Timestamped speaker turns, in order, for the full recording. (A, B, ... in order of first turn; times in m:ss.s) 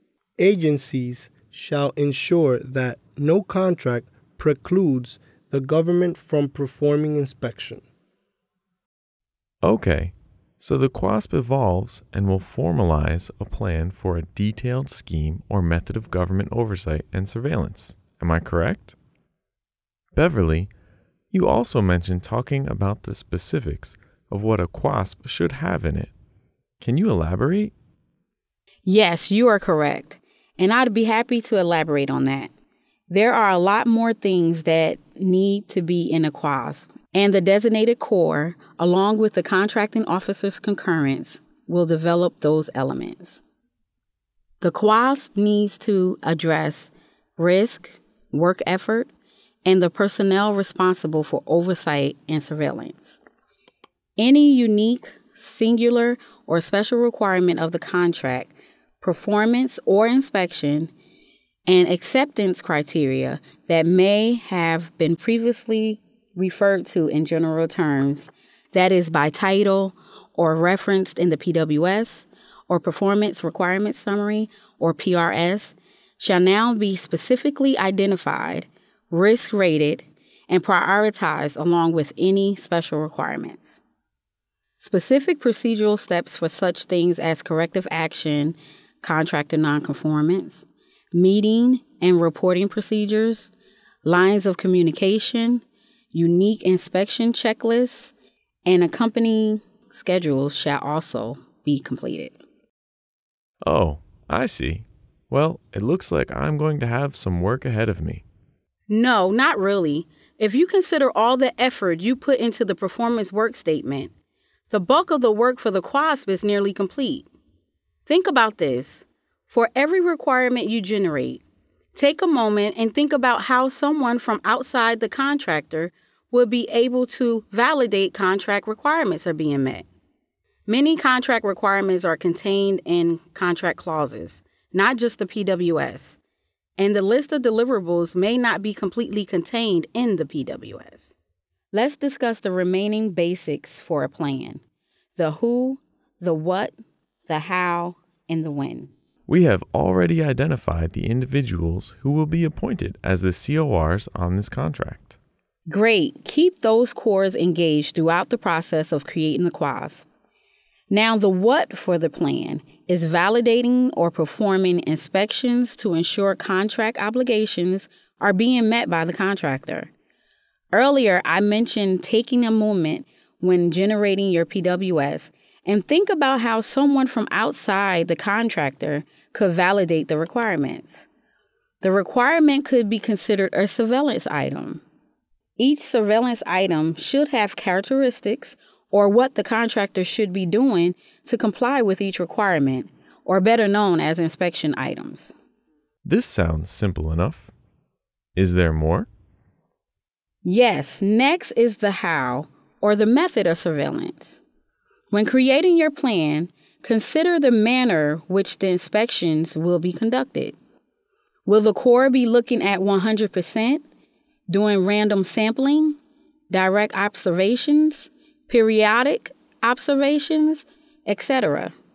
0:00.4-0:07.8 A
0:09.6-0:19.0 B
0:20.1-0:20.7 B
0:21.3-0:26.1 B
0:26.8-0:27.7 B
0:28.8-0:32.5 C
0:33.1-0:43.4 C
0:44.6-0:49.1 C
0:49.6-0:53.2 C
0:54.2-1:00.9 C
1:01.7-1:23.8 C
1:24.8-1:33.5 C
1:34.0-1:38.1 C
1:38.6-1:42.4 C
1:43.6-1:48.2 B
1:48.9-1:54.1 C
1:54.7-1:57.3 C
1:58.1-2:01.4 C
2:01.9-2:09.9 C
2:10.6-2:16.2 C
2:16.8-2:21.1 C
2:21.7-2:24.6 C
2:25.2-2:28.9 C
2:29.3-2:35.2 B
2:35.7-2:40.1 C
2:40.9-2:49.9 C
2:50.7-3:01.1 C
3:01.8-3:04.8 C
3:05.6-3:15.3 C
3:16.0-3:17.5 B
3:18.4-3:19.1 B
3:20.4-3:24.4 C
3:25.1-3:30.6 C
3:31.5-3:33.8 C
3:34.5-3:36.0 C
3:36.5-3:41.8 C